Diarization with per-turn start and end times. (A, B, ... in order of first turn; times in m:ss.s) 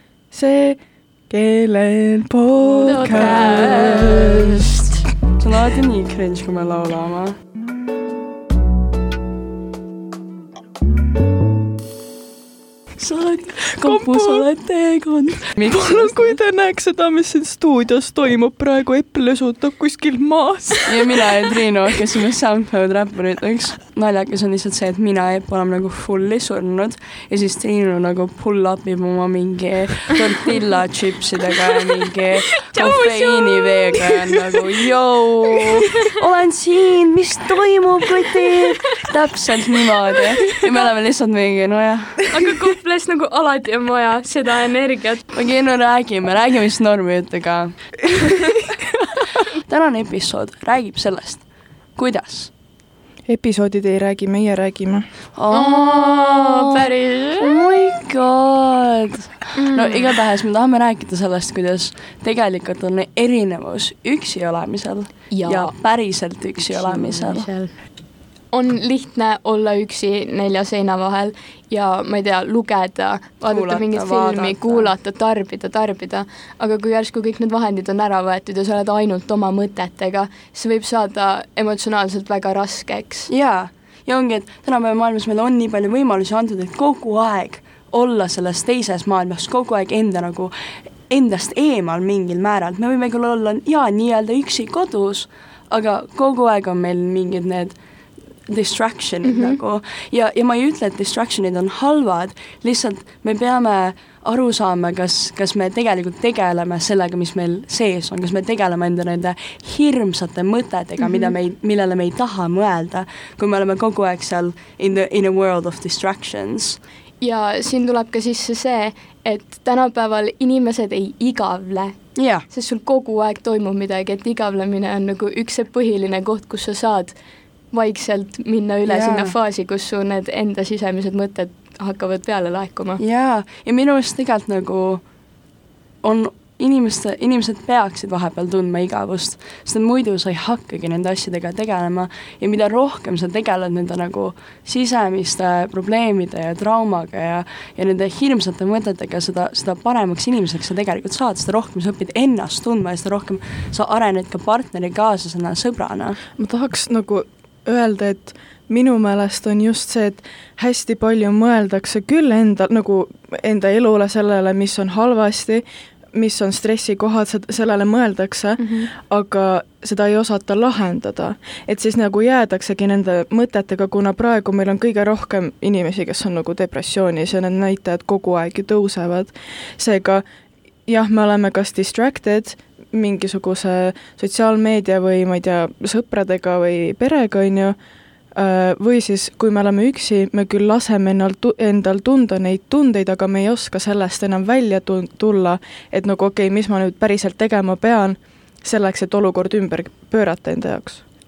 0:00.3-0:04.4 A
0:02.7-0:04.4 B
0:02.8-0:04.3 C
0:05.4-0:07.4 B
0:13.0-0:16.4 B
0:13.8-0:14.5 A
0:15.7-0:21.9 A
0:20.9-0:42.5 B
0:32.7-0:34.0 C
0:42.3-0:45.4 C
0:45.3-0:48.2 B
0:49.4-0:52.5 B
0:53.3-0:55.1 A
0:55.4-0:56.9 B
0:55.5-0:57.5 C
0:57.4-1:07.5 B
0:59.6-1:00.2 C
1:05.3-1:07.9 C
1:08.5-1:23.3 C
1:13.5-1:14.9 B
1:23.3-1:37.8 B
1:38.5-1:56.8 B
1:39.2-1:39.6 C
1:51.0-1:51.4 C
1:57.2-2:13.0 C
2:02.2-2:02.4 B
2:08.8-2:09.4 B
2:13.0-2:15.1 B
2:16.0-2:36.2 B
2:36.4-3:00.2 A
2:48.6-2:48.9 C
3:00.8-3:07.8 A
3:08.4-3:21.1 A